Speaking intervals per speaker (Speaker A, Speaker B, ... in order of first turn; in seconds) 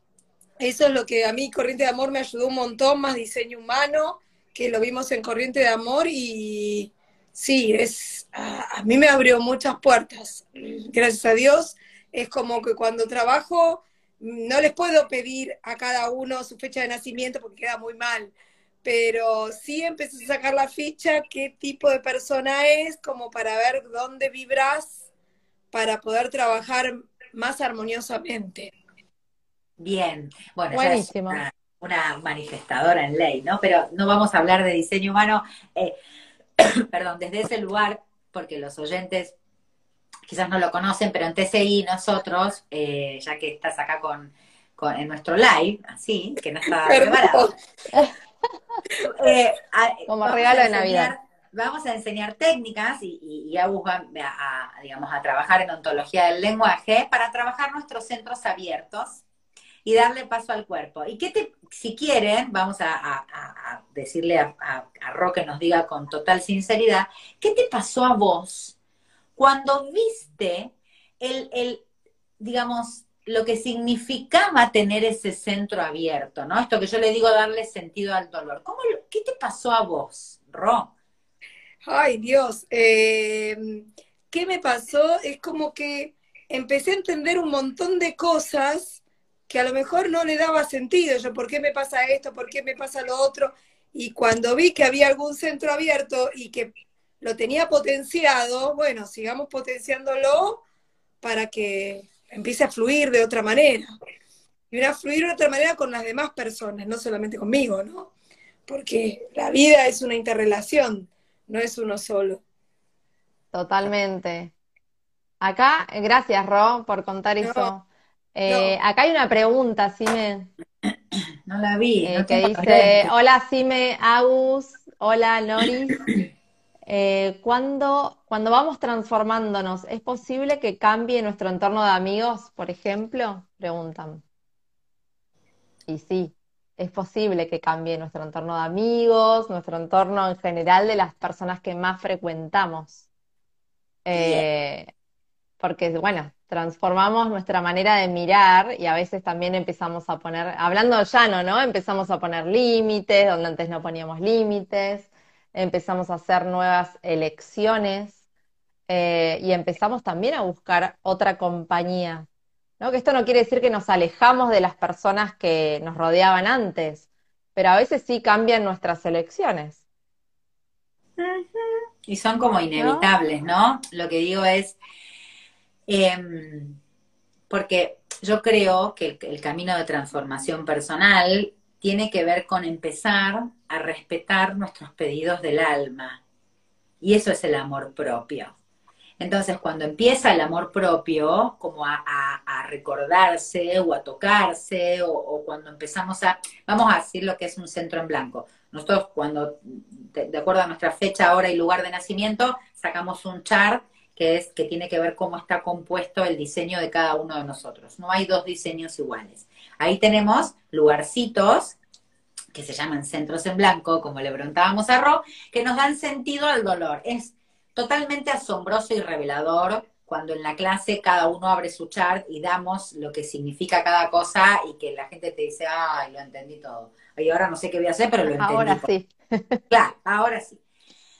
Speaker A: 0.6-18.3, 18.8-25.1, 25.7-28.7, 46.7-47.5, 81.8-100.6, 101.2-103.9, 104.7-108.1, 108.7-112.4, 117.4-117.7, 118.5-118.8
Speaker B: 29.8-36.0, 36.6-39.3, 40.2-47.5, 49.0-59.2, 59.8-68.8, 69.3-71.8, 72.4-80.9, 121.5-123.1, 144.1-144.4, 171.2-174.8, 175.9-176.8, 177.5-186.2, 187.0-188.5, 189.2-211.8, 212.5-228.9, 229.7-230.6
Speaker C: 30.7-31.4, 50.1-51.1, 113.5-114.5, 115.4-120.5, 122.0-126.0, 126.9-134.2, 135.9-143.1, 144.0-144.9, 145.6-158.2, 158.9-162.3, 162.8-169.8, 172.8-173.1, 228.3-229.6